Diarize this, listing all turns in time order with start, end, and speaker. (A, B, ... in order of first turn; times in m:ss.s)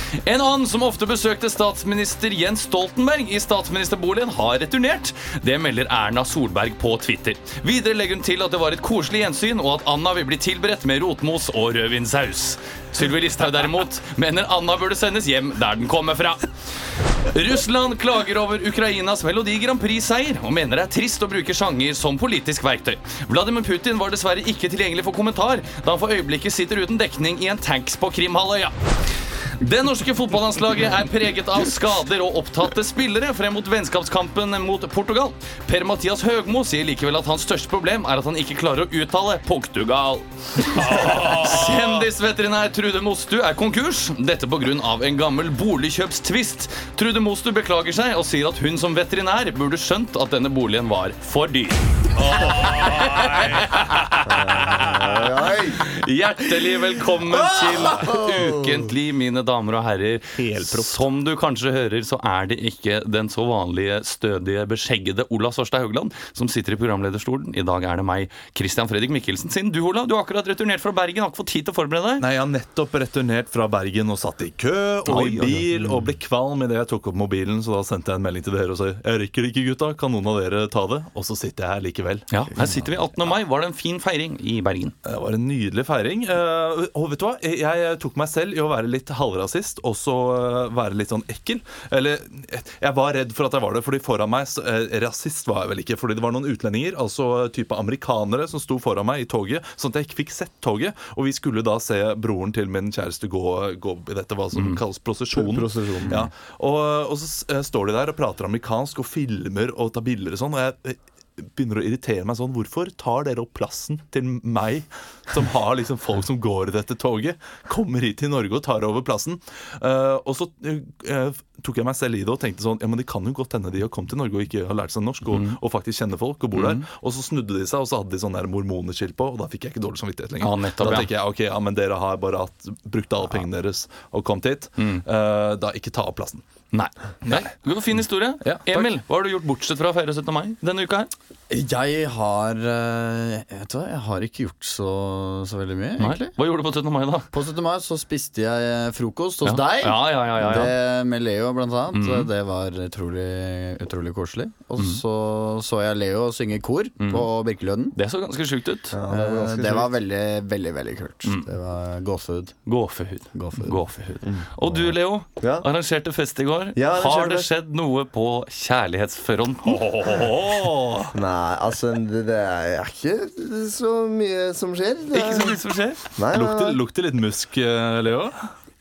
0:00.2-0:16.5 A
0:17.3-0:28.8 A
0:29.6-0:51.8 A
0:40.7-0:42.1 B
0:52.2-0:53.7 B
0:52.4-0:55.0 A
0:54.2-0:55.8 C
0:55.8-1:12.2 A
0:57.8-0:58.1 B
1:00.4-1:01.0 B
1:12.2-1:22.3 B
1:15.1-1:15.6 A
1:22.3-1:24.9 A
1:22.6-1:22.9 D
1:25.0-2:16.4 B
1:44.5-1:44.8 A
1:45.3-1:46.2 C
2:05.3-2:05.6 A
2:06.5-2:06.8 A
2:10.4-2:11.1 A
2:14.8-2:15.0 A
2:16.7-2:21.1 A
2:17.2-2:17.6 B
2:18.4-2:18.9 B
2:21.5-2:26.3 D
2:26.0-2:27.3 A
2:27.3-2:38.0 D
2:29.4-2:30.7 A
2:30.4-2:30.7 C
2:31.9-2:32.3 A
2:37.0-2:37.3 A
2:37.9-2:39.0 A
2:38.9-2:39.9 C
2:39.1-2:42.6 D
2:41.2-2:41.5 A
2:42.7-2:49.9 A
2:43.3-2:44.0 D
2:44.2-2:44.5 C
2:45.4-2:45.7 C
2:46.8-2:47.5 C
2:49.6-2:51.1 B
2:51.1-2:55.6 C
2:55.1-2:56.0 A
2:56.2-2:56.8 C
2:56.3-2:58.5 B